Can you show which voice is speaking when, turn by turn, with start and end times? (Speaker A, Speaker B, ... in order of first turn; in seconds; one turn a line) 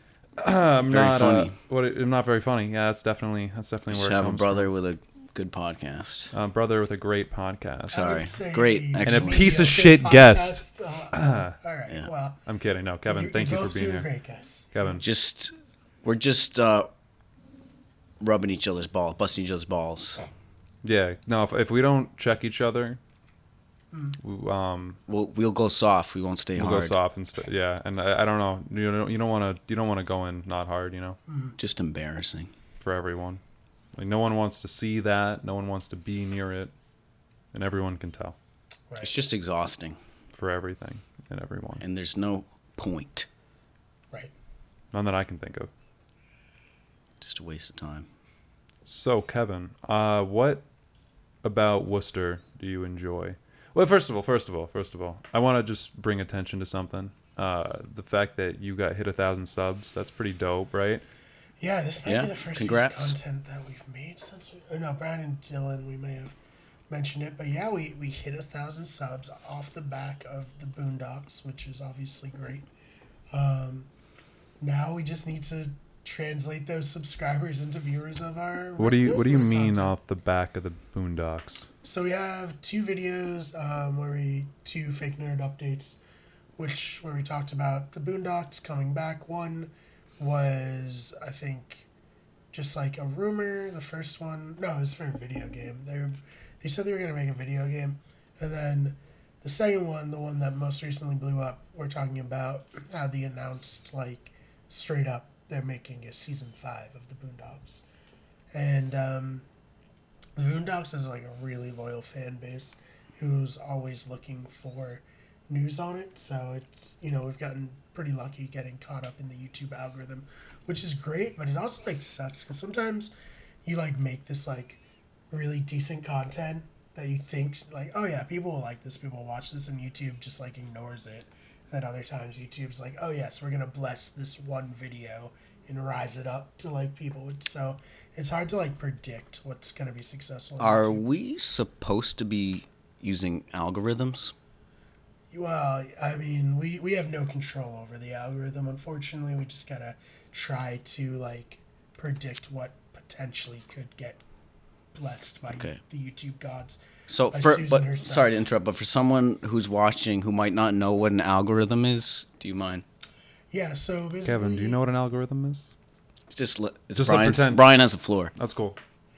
Speaker A: 0.4-4.7
Speaker B: 0.9-1.6
Speaker B: 3.9-6.3
Speaker A: 6.3-8.2
Speaker C: 7.9-12.4
Speaker B: 7.9-9.7
Speaker A: 9.1-11.6
Speaker A: 12.5-14.1
Speaker C: 13.1-15.0
Speaker A: 14.7-15.1
Speaker B: 15.0-16.9
Speaker B: 18.2-20.2
Speaker A: 20.8-23.0
Speaker C: 23.9-24.2
Speaker A: 24.2-25.0
Speaker B: 25.1-27.0
Speaker A: 26.6-31.2
Speaker C: 31.3-31.6
Speaker B: 31.6-32.5
Speaker A: 32.8-33.4
Speaker A: 34.0-36.7
Speaker A: 37.5-38.4
Speaker B: 39.0-40.0
Speaker A: 40.3-41.8
Speaker B: 41.8-43.3
Speaker A: 44.9-45.7
Speaker B: 47.2-48.1
Speaker A: 48.9-50.6
Speaker A: 51.4-61.0
Speaker C: 61.6-66.3
Speaker B: 62.1-63.2
Speaker C: 66.9-72.7
Speaker C: 73.3-73.9
Speaker C: 74.6-79.9
Speaker A: 78.8-81.7
Speaker C: 81.8-86.0
Speaker C: 86.6-91.9
Speaker C: 92.5-107.8
Speaker C: 108.5-109.5
Speaker C: 110.4-123.1
Speaker C: 123.7-141.0
Speaker B: 140.6-144.3
Speaker C: 145.3-154.2
Speaker C: 154.9-158.4
Speaker B: 155.5-155.8
Speaker B: 157.1-162.8
Speaker C: 163.5-164.8
Speaker A: 164.3-165.7
Speaker B: 166.3-168.3
Speaker A: 167.0-167.7
Speaker A: 168.4-168.8